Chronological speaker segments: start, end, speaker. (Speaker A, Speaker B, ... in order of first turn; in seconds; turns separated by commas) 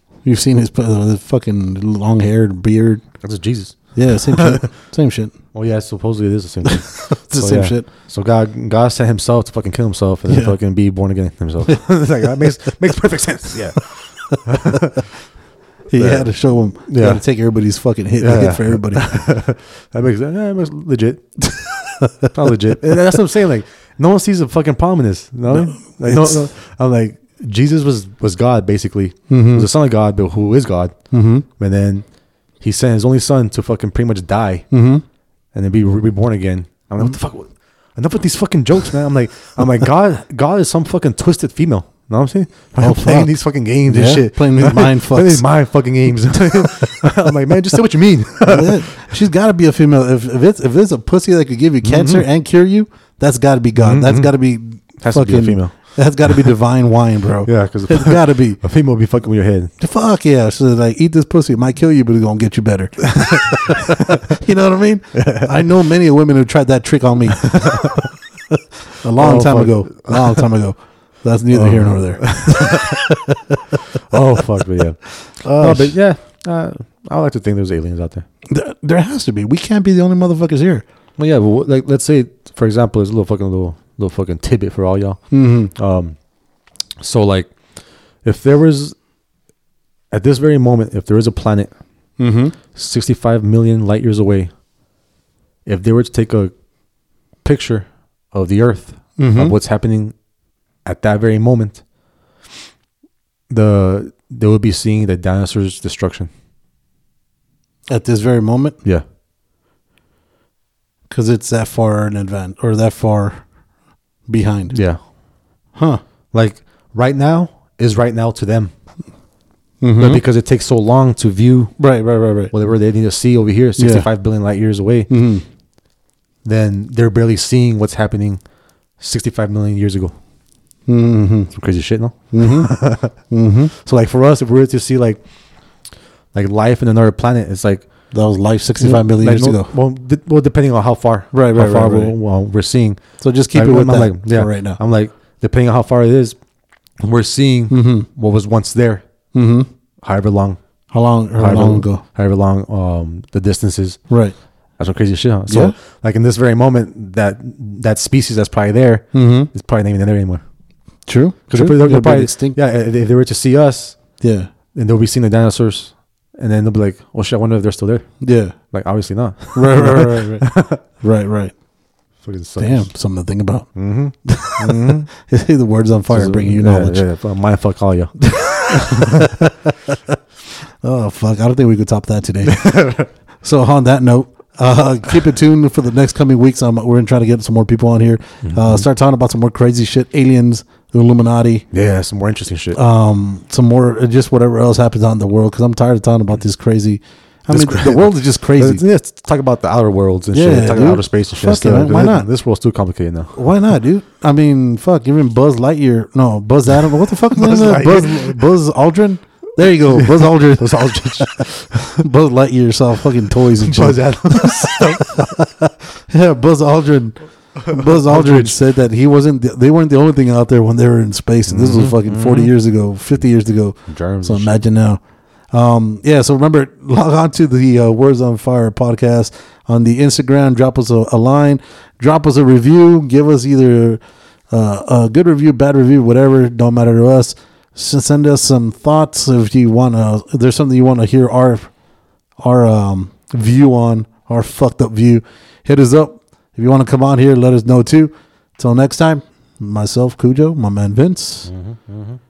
Speaker A: 0.2-3.0, Speaker B: 3.2-4.6, Speaker A: 3.9-5.3, Speaker B: 5.5-15.0, Speaker A: 6.6-7.9, Speaker A: 10.3-10.5, Speaker A: 15.9-19.1, Speaker B: 15.9-17.2, Speaker B: 18.2-21.4, Speaker A: 21.9-22.3, Speaker B: 22.3-31.0, Speaker A: 25.5-26.5, Speaker A: 29.3-29.7, Speaker A: 31.1-31.4, Speaker B: 31.6-32.0, Speaker B: 32.6-34.7, Speaker A: 34.7-35.0, Speaker B: 35.5-48.9, Speaker A: 42.8-45.5, Speaker A: 48.4-58.6, Speaker B: 51.8-52.2, Speaker B: 53.7-54.3, Speaker B: 55.0-56.4, Speaker B: 57.5-59.7, Speaker A: 59.8-68.1, Speaker B: 63.2-63.7, Speaker B: 65.1-65.7, Speaker B: 67.4-68.1, Speaker A: 69.0-73.6, Speaker B: 69.2-70.5, Speaker B: 71.5-73.0, Speaker B: 74.0-78.2, Speaker A: 75.4-76.0, Speaker A: 78.5-80.8, Speaker B: 81.2-86.2, Speaker A: 85.3-85.7, Speaker B: 87.0-87.5, Speaker B: 88.2-88.9, Speaker B: 90.1-91.7, Speaker A: 92.2-92.5, Speaker B: 92.7-94.5, Speaker B: 95.7-96.5, Speaker B: 97.4-100.1, Speaker A: 99.2-99.5, Speaker B: 100.8-101.8, Speaker B: 103.5-106.3, Speaker A: 107.9-108.8, Speaker A: 111.1-113.4, Speaker A: 114.2-114.8, Speaker B: 114.7-115.0, Speaker A: 115.8-116.0, Speaker B: 116.3-118.7, Speaker A: 119.8-120.2, Speaker B: 120.0-121.7, Speaker A: 121.8-122.5, Speaker B: 122.5-125.1, Speaker A: 123.8-124.1, Speaker A: 125.1-125.4, Speaker B: 126.4-128.4, Speaker B: 129.0-130.2, Speaker A: 130.9-131.5, Speaker B: 131.5-133.2, Speaker A: 132.3-133.7, Speaker B: 133.7-135.2, Speaker B: 136.3-137.8, Speaker A: 138.1-139.7, Speaker B: 138.8-146.4, Speaker A: 141.3-142.2, Speaker A: 143.2-144.8, Speaker B: 147.0-149.0, Speaker A: 147.7-148.1, Speaker A: 149.3-149.7, Speaker B: 150.0-150.6, Speaker A: 150.9-152.0, Speaker B: 151.4-154.0, Speaker A: 154.1-154.3, Speaker B: 154.8-160.4, Speaker A: 155.5-155.8, Speaker A: 159.1-159.5, Speaker A: 161.1-162.6, Speaker B: 161.5-164.0, Speaker A: 164.2-164.5, Speaker B: 164.7-170.8, Speaker A: 168.2-168.5, Speaker A: 169.5-171.5, Speaker B: 172.2-172.9, Speaker A: 172.6-177.1, Speaker B: 173.7-175.1, Speaker B: 176.1-179.2, Speaker A: 178.3-179.7, Speaker A: 180.8-182.8, Speaker B: 182.4-183.1, Speaker A: 183.4-191.7, Speaker B: 188.4-188.8, Speaker B: 191.7-192.8, Speaker A: 192.7-198.8, Speaker B: 197.5-203.3, Speaker A: 200.3-202.3, Speaker A: 203.3-225.0, Speaker B: 207.3-208.4, Speaker B: 209.9-212.0, Speaker B: 213.5-215.3, Speaker B: 217.6-218.6, Speaker B: 221.5-222.5, Speaker B: 223.9-224.6, Speaker A: 225.5-241.7, Speaker A: 242.4-251.5, Speaker B: 251.4-252.2